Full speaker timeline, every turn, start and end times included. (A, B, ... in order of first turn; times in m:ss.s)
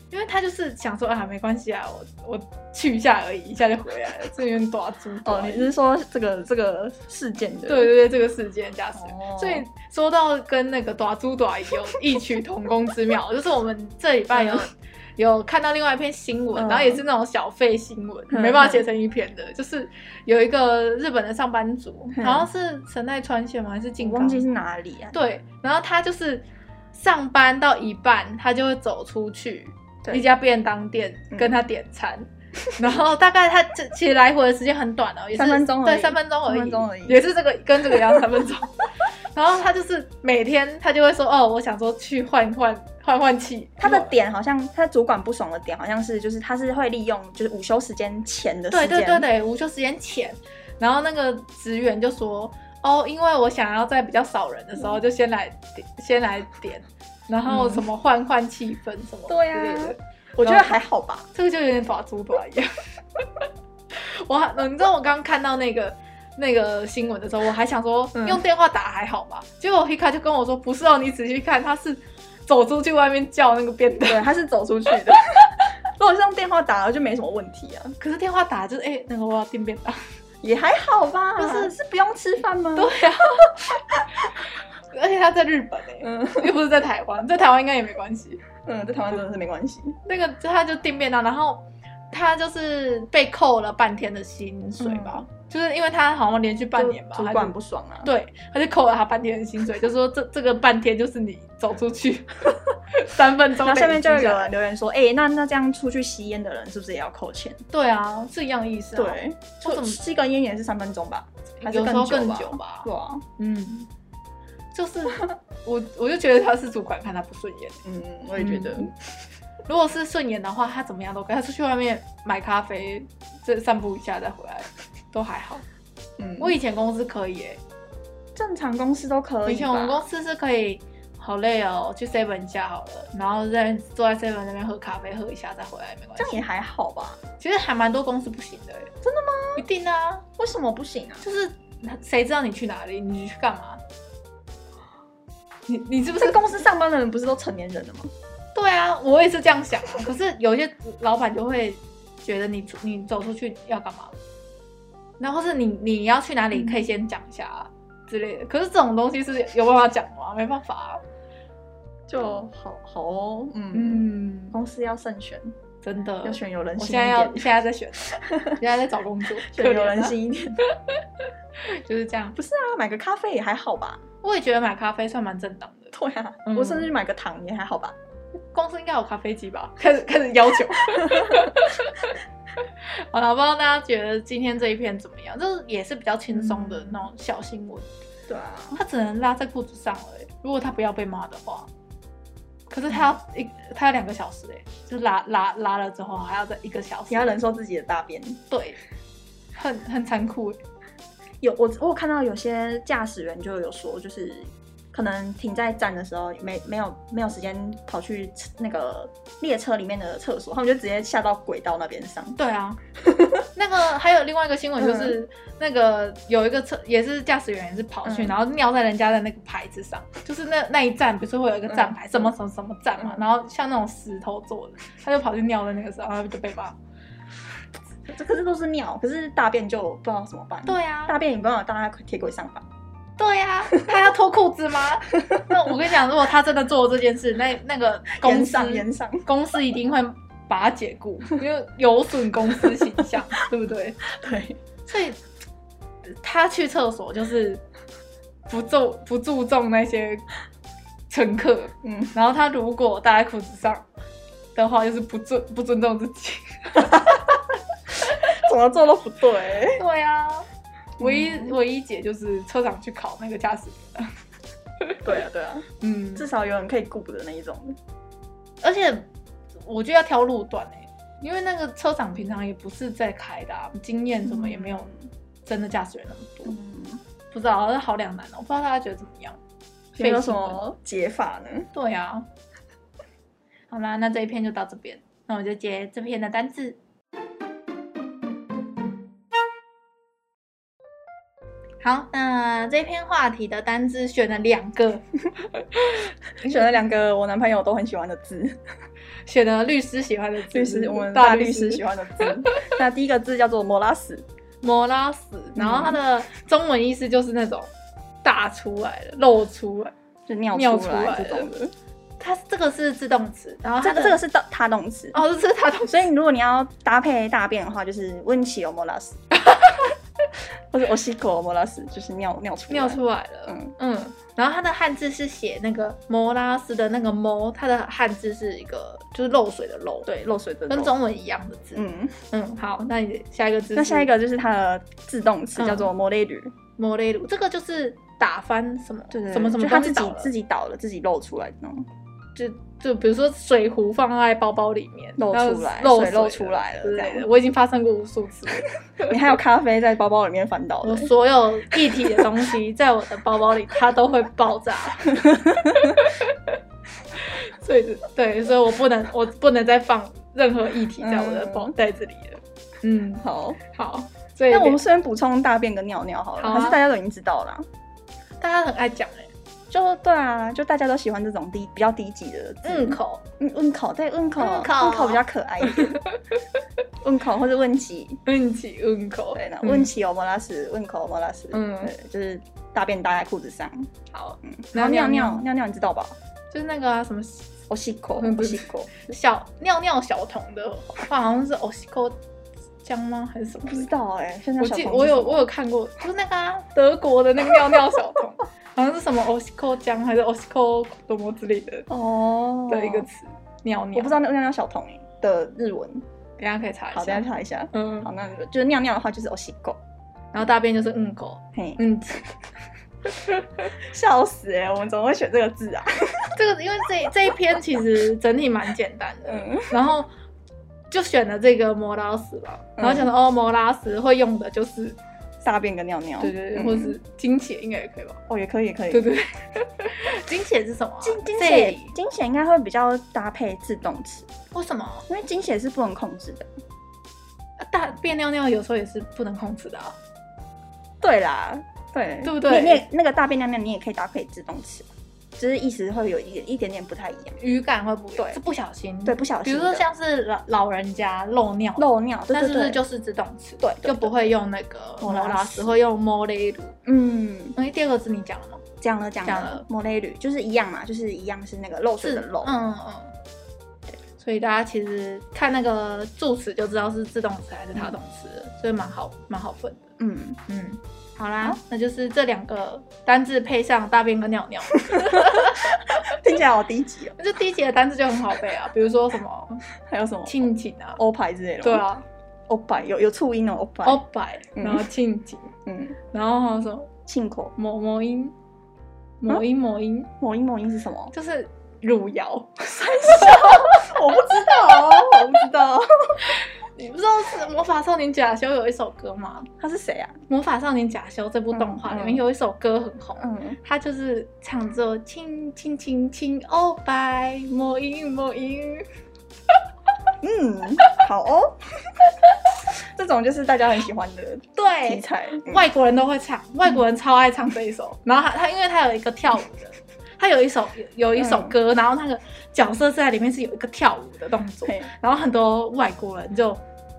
0:00.1-0:05.7 A
0:05.2-0:07.9 B
0:07.7-0:24.4 A
0:09.0-0:09.6 B
0:14.3-0:14.6 B
0:16.6-0:17.0 B
0:18.3-0:18.8 B
0:22.1-0:22.5 B
0:24.0-0:25.2 B
0:25.1-0:44.1 A
0:35.4-0:37.2 B
0:37.9-0:38.2 B
0:43.8-0:49.3 B
0:48.7-1:00.8 A
0:57.5-0:57.8 B
0:59.3-1:01.3 B
1:01.3-1:03.2 A
1:03.9-1:14.3 A
1:08.2-1:08.4 B
1:14.1-1:18.0 B
1:15.1-1:15.4 A
1:18.0-1:20.0 A
1:20.4-1:22.9 B
1:21.4-1:21.7 A
1:22.8-1:28.4 A
1:23.5-1:24.0 B
1:26.0-1:26.5 B
1:28.6-1:30.0 B
1:30.1-1:37.5 A
1:34.8-1:35.2 B
1:36.8-1:38.1 B
1:38.0-1:44.5 A
1:43.6-1:47.6 B
1:47.7-1:50.0 A
1:49.0-1:53.2 B
1:51.6-1:53.9 A
1:54.7-1:57.8 A
1:57.8-1:59.1 B
1:58.4-1:58.9 A
1:59.7-2:05.6 A
2:06.2-2:06.5 B
2:06.4-2:07.6 A
2:08.4-2:10.0 B
2:09.5-2:16.4 A
2:16.2-2:17.2 B
2:17.4-2:18.9 A
2:19.0-2:19.6 B
2:19.6-2:20.2 A
2:20.4-2:21.2 B
2:21.2-2:23.8 A
2:25.7-2:26.4 A
2:26.1-2:28.1 B
2:28.6-2:34.2 A
2:35.2-2:41.0 A
2:36.5-2:36.9 B
2:42.1-2:45.5 B
2:43.7-2:44.6 A
2:45.8-2:51.0 A
2:46.2-2:47.5 B
2:48.1-2:48.6 B
2:49.4-2:50.6 B
2:51.6-2:52.4 A
2:52.4-2:54.0 B
2:54.2-2:55.9 A
2:55.9-2:58.0 B
2:56.4-2:56.9 A
2:58.5-3:02.1 A
3:00.9-3:01.5 B
3:03.1-3:07.9 A
3:06.3-3:07.0 B
3:08.3-3:08.8 B
3:08.8-3:11.7 A
3:12.7-3:17.3 A
3:17.1-3:18.4 B
3:18.5-3:18.8 A
3:19.6-3:20.6 A
3:21.4-3:32.4 B
3:32.4-3:32.8 A
3:33.0-3:33.4 B
3:33.6-3:46.8 A
3:34.8-3:35.2 B
3:38.0-3:38.4 B
3:41.7-3:42.3 B
3:48.1-3:52.7 B
3:50.7-3:51.2 A
3:53.2-4:04.0 A
3:58.2-3:59.3 B
4:04.1-4:04.6 B
4:04.9-4:05.2 A
4:06.1-4:07.6 A
4:08.5-4:10.3 A
4:11.1-4:13.8 A
4:11.8-4:12.2 B
4:14.6-4:17.4 A
4:18.2-4:19.8 B
4:19.7-4:20.5 A
4:21.0-4:21.6 B
4:21.0-4:24.1 A
4:24.8-4:25.2 A
4:25.0-4:27.8 B
4:25.8-4:26.3 A
4:28.6-4:29.1 A
4:29.6-4:34.9 A
4:34.2-4:35.0 B
4:35.5-4:36.6 A
4:36.4-4:37.0 B
4:37.3-4:39.4 A
4:40.0-4:41.7 B
4:40.0-4:40.6 A
4:41.7-4:42.3 A
4:43.7-4:46.8 A
4:51.8-4:55.0 A
4:55.6-4:56.8 A
4:56.4-4:58.6 B
4:59.3-5:02.7 A
5:00.5-5:04.2 B
5:04.6-5:07.7 A
5:05.6-5:06.0 B
5:08.2-5:09.9 A
5:10.3-5:11.7 B
5:10.5-5:11.5 A
5:12.2-5:14.2 A
5:13.8-5:15.2 B
5:15.1-5:16.0 A
5:15.9-5:19.2 B
5:19.4-5:19.9 A
5:20.7-5:23.8 B
5:22.7-5:30.1 A
5:30.1-5:31.0 B
5:30.7-5:34.1 A
5:31.8-5:32.2 B
5:33.8-5:36.5 B
5:35.6-5:35.9 A
5:36.8-5:40.3 A
5:39.1-5:41.9 B
5:42.4-5:49.1 A
5:45.2-5:47.3 B
5:49.0-5:51.1 B
5:50.8-5:56.6 A
5:51.8-5:52.4 B
5:55.1-5:56.0 B
5:57.2-6:04.8 A
6:01.0-6:01.7 B
6:03.2-6:03.6 B
6:04.5-6:07.7 B
6:06.4-6:06.8 A
6:08.4-6:09.3 A
6:09.7-6:16.0 B
6:12.6-6:13.2 A
6:14.4-6:16.2 A
6:17.0-6:18.2 B
6:18.3-6:19.9 A
6:19.4-6:23.9 B
6:21.5-6:21.9 A
6:24.1-6:25.4 A
6:24.4-6:26.2 B
6:26.5-6:27.5 A
6:27.7-6:29.0 B
6:28.2-6:32.2 A
6:32.8-6:33.9 A
6:33.6-6:35.4 B
6:34.6-6:41.9 A
6:37.6-6:38.0 B
6:41.9-6:43.1 B
6:42.7-6:44.2 A
6:43.9-6:46.0 B
6:46.4-6:48.1 A
6:46.9-6:49.8 B
6:50.3-6:52.3 A
6:51.5-6:51.8 B
6:53.1-6:53.7 A
6:53.7-6:56.4 B
6:56.4-7:00.1 A
6:59.3-6:59.7 B
7:00.9-7:05.0 A
7:02.8-7:03.1 B
7:05.4-7:07.0 B
7:06.2-7:08.2 A
7:08.3-7:09.1 B
7:08.9-7:12.0 A
7:11.0-7:14.3 B
7:14.5-7:15.1 A
7:15.1-7:16.5 B
7:17.6-7:20.0 A
7:21.0-7:27.4 B
7:22.2-7:22.9 A
7:27.4-7:36.8 A
7:29.0-7:29.8 B
7:31.8-7:32.8 B
7:33.6-7:34.3 B
7:35.0-7:35.8 B
7:36.8-7:37.6 B
7:37.6-7:38.6 A
7:38.8-7:42.6 B
7:39.2-7:39.6 A
7:42.0-7:43.1 A
7:44.2-7:49.8 A
7:50.0-7:50.4 B
7:50.5-7:56.2 A
7:54.8-7:57.2 B
7:57.2-7:59.6 A
7:59.8-8:01.9 B
8:00.3-8:01.0 A
8:01.6-8:02.0 A
8:02.5-8:04.0 B
8:03.8-8:05.5 A
8:04.6-8:04.9 B
8:05.7-8:06.0 B
8:06.1-8:06.9 A
8:07.1-8:07.5 B
8:07.6-8:08.3 A
8:09.2-8:10.1 A
8:10.2-8:11.1 B
8:11.1-8:14.0 A
8:12.7-8:16.3 B
8:14.7-8:15.2 A
8:16.2-8:19.5 A
8:19.6-8:20.2 B
8:20.3-8:28.9 A
8:21.5-8:22.2 B
8:23.2-8:23.6 B
8:30.2-8:35.7 B
8:34.5-8:46.6 A
8:41.2-8:41.6 B
8:44.7-8:44.9 B